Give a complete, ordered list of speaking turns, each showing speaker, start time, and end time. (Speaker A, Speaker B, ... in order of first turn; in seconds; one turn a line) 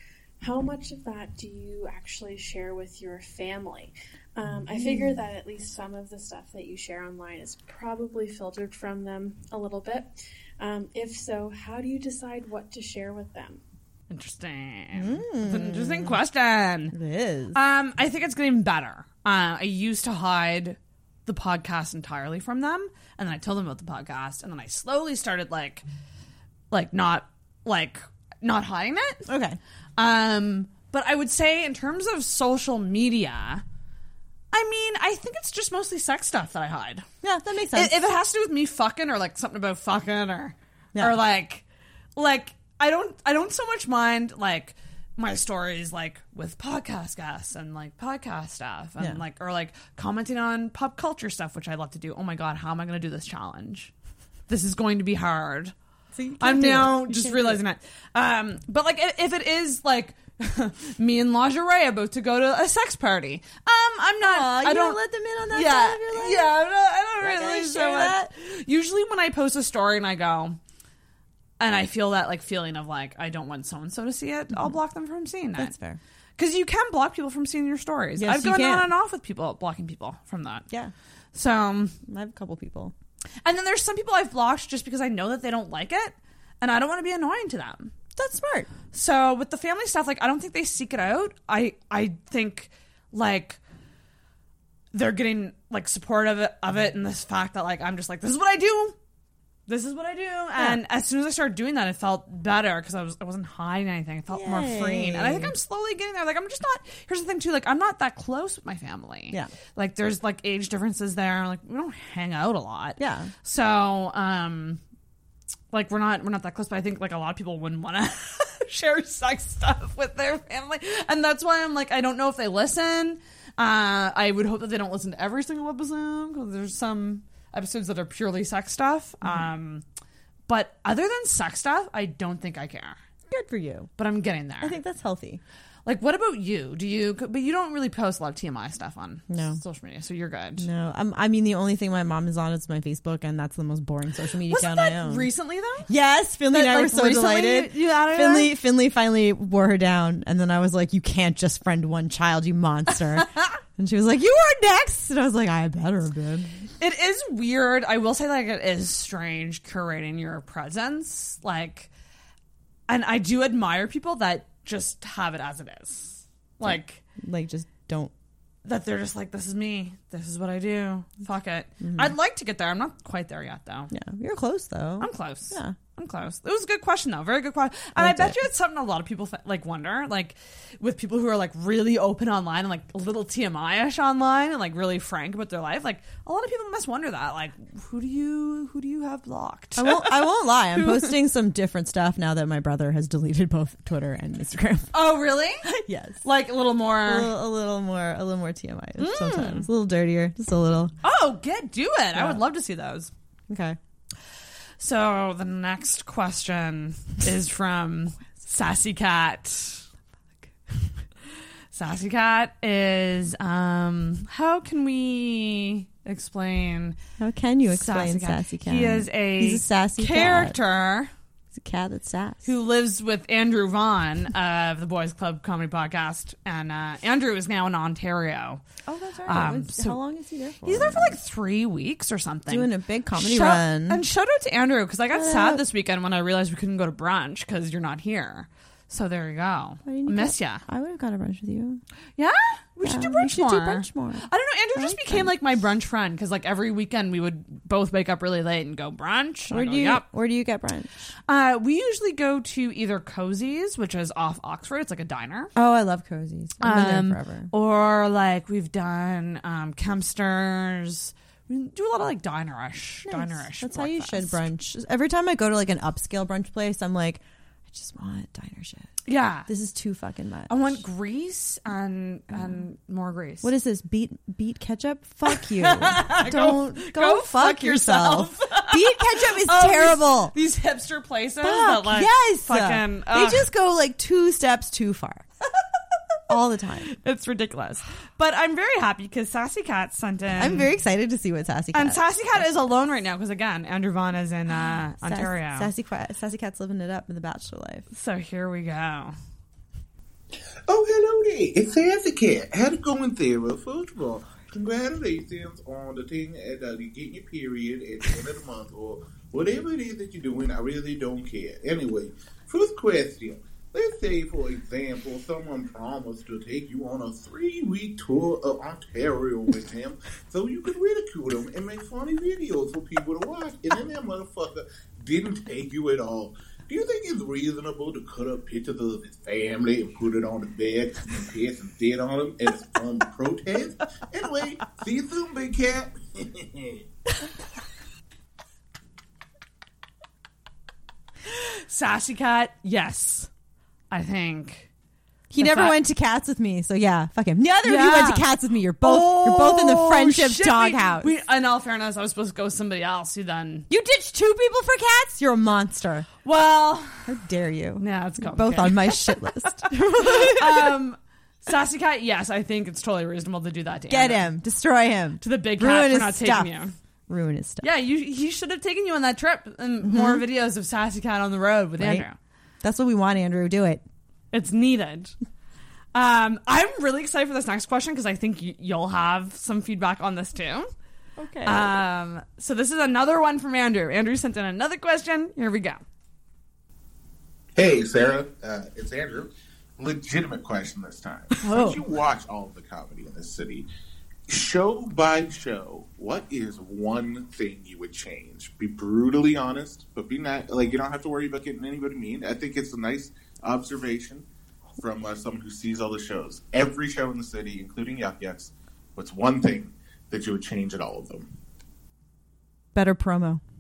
Speaker A: 0.4-13.6
Speaker B: 4.7-5.2
Speaker C: 14.1-16.9
Speaker B: 14.9-16.2
Speaker B: 16.9-17.6
Speaker C: 17.5-25.8
Speaker C: 26.7-29.3
Speaker B: 29.3-29.6
Speaker C: 30.0-33.6
Speaker C: 34.5-37.0
Speaker B: 37.2-38.0
Speaker C: 37.7-41.6
Speaker C: 42.1-53.9
Speaker C: 54.5-55.7
Speaker B: 56.1-57.6
Speaker C: 56.4-65.0
Speaker B: 64.2-66.5
Speaker C: 65.5-70.6
Speaker B: 67.2-68.3
Speaker C: 71.6-75.7
Speaker B: 75.5-76.0
Speaker C: 76.4-80.7
Speaker B: 78.2-78.9
Speaker C: 81.3-82.0
Speaker B: 82.0-82.9
Speaker C: 83.4-87.9
Speaker B: 88.2-88.7
Speaker C: 88.9-93.6
Speaker C: 94.9-99.0
Speaker C: 99.7-114.8
Speaker B: 104.3-105.5
Speaker B: 113.0-113.3
Speaker C: 115.7-129.8
Speaker C: 130.5-133.0
Speaker B: 133.3-133.9
Speaker C: 134.0-134.8
Speaker B: 134.6-135.4
Speaker C: 135.8-140.7
Speaker B: 139.3-139.6
Speaker B: 140.6-145.3
Speaker C: 144.5-145.9
Speaker B: 145.9-156.5
Speaker C: 146.5-148.6
Speaker C: 156.8-161.9
Speaker C: 162.9-167.0
Speaker B: 166.6-168.1
Speaker C: 168.6-173.9
Speaker B: 171.8-172.1
Speaker B: 173.9-175.8
Speaker C: 175.0-191.1
Speaker B: 177.9-178.4
Speaker B: 189.8-194.9
Speaker C: 194.9-197.3
Speaker B: 195.7-196.2
Speaker B: 197.0-200.9
Speaker C: 199.0-199.7
Speaker C: 201.0-203.1
Speaker B: 202.1-202.4
Speaker B: 203.5-203.8
Speaker C: 204.8-209.8
Speaker C: 211.7-217.0
Speaker B: 217.2-220.6
Speaker C: 217.7-221.1
Speaker B: 221.5-222.4
Speaker C: 222.4-228.6
Speaker B: 228.9-231.2
Speaker C: 229.3-230.0
Speaker C: 230.6-240.6
Speaker B: 232.5-234.0
Speaker B: 235.1-235.6
Speaker B: 239.8-241.8
Speaker C: 242.2-250.1
Speaker B: 242.8-245.3
Speaker B: 249.5-250.9
Speaker C: 251.3-255.5
Speaker B: 255.5-257.5
Speaker C: 256.6-264.4
Speaker B: 263.1-268.9
Speaker C: 269.1-269.5
Speaker B: 269.5-270.8
Speaker C: 270.5-273.5
Speaker B: 273.4-280.3
Speaker C: 275.3-283.5
Speaker B: 281.4-285.2
Speaker B: 286.3-286.9
Speaker C: 286.9-290.7
Speaker B: 290.4-292.7
Speaker C: 291.7-295.7
Speaker B: 295.0-297.9
Speaker C: 297.9-299.1
Speaker D: 300.7-336.8
Speaker C: 341.3-343.3
Speaker C: 343.9-344.7
Speaker B: 345.3-351.1
Speaker C: 345.4-345.8
Speaker C: 347.6-348.3
Speaker C: 348.8-353.7
Speaker B: 353.7-356.1
Speaker C: 356.2-357.1
Speaker B: 357.1-360.8
Speaker C: 357.8-364.3
Speaker B: 363.9-366.5
Speaker C: 365.2-366.7
Speaker B: 367.1-367.7
Speaker C: 367.6-372.1
Speaker B: 369.8-370.2
Speaker B: 371.8-372.1
Speaker B: 372.6-373.8
Speaker C: 374.3-375.1
Speaker C: 375.9-380.7
Speaker B: 381.2-381.8
Speaker C: 381.4-385.8
Speaker D: 387.6-393.6
Speaker B: 391.4-391.8
Speaker D: 394.3-404.2
Speaker D: 404.8-411.3
Speaker B: 412.7-413.4